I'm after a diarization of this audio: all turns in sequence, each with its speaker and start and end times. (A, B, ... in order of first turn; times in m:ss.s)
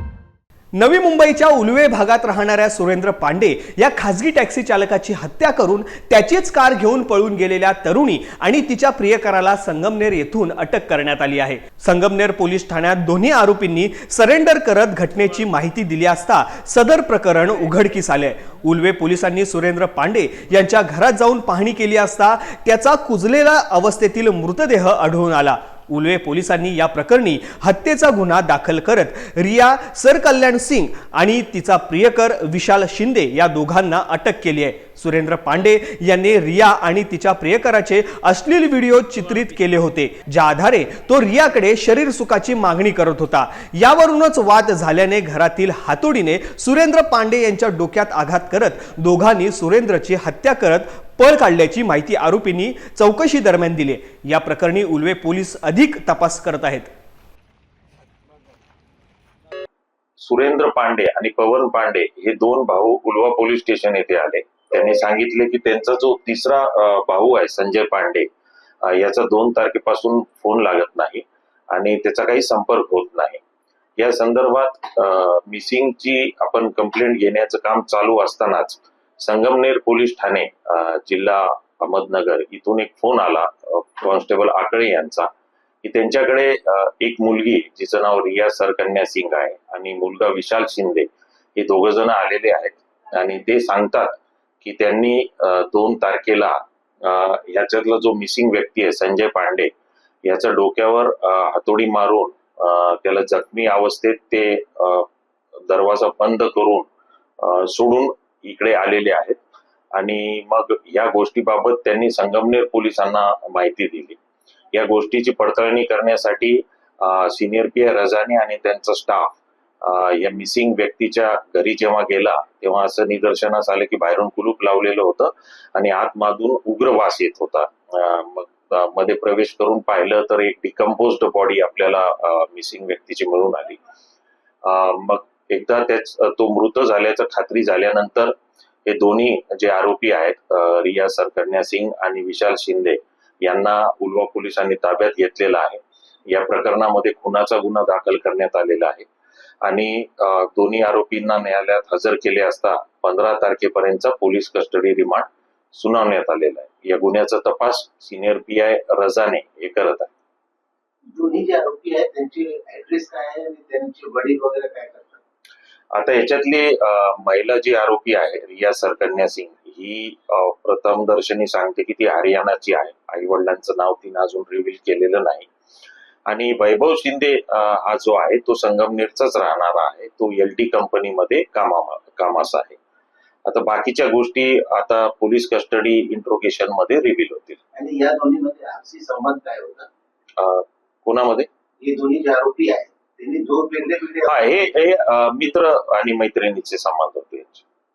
0:00.8-0:56.9 A
1:00.2-1:08.3 B
1:08.8-1:13.4 B
1:14.0-1:25.3 B
1:25.8-1:39.7 B
1:40.2-1:45.1 B
1:45.7-1:46.9 B
1:47.4-1:49.4 B
1:50.0-1:54.2 B
1:54.7-2:13.8 B
2:14.6-2:18.4 B
2:18.9-2:29.1 B
2:29.6-2:40.1 B
2:41.1-2:45.2 C
2:45.9-2:55.5 B
2:56.3-3:02.8 B
3:03.5-3:07.6 B
3:07.8-3:09.9 C
3:10.4-3:11.5 B
3:11.8-3:14.7 C
3:14.2-3:17.6 B